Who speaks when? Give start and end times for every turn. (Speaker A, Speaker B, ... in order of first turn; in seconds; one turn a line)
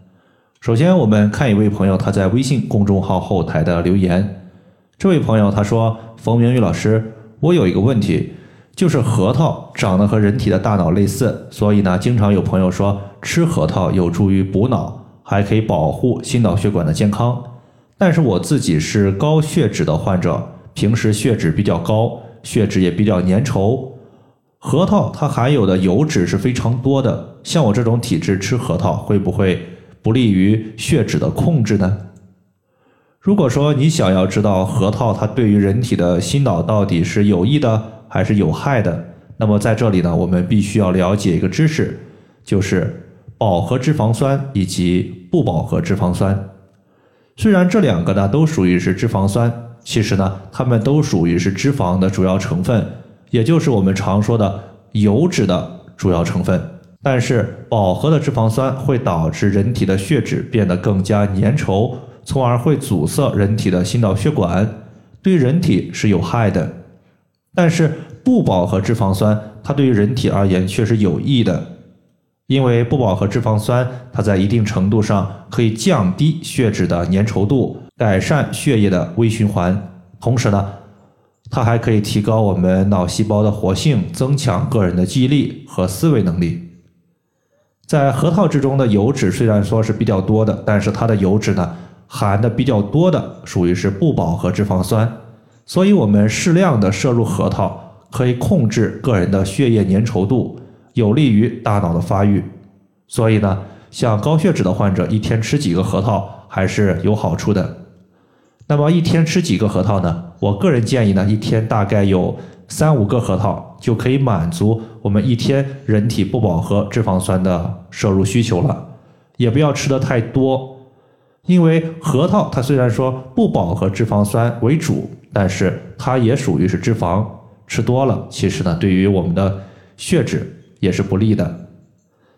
Speaker A: 0.6-4.3
Speaker A: 5.0-17.4
Speaker A: 18.0-23.8
Speaker A: 24.6-32.0
Speaker A: 33.2-46.4
Speaker A: 47.4-64.7
Speaker A: 65.2-66.7
Speaker A: 67.5-71.6
Speaker A: 72.5-80.7
Speaker A: 81.5-86.6
Speaker A: 87.9-95.1
Speaker A: 95.7-102.5
Speaker A: 103.1-107.7
Speaker A: 108.7-118.8
Speaker A: 119.4-120.7
Speaker A: 121.5-131.5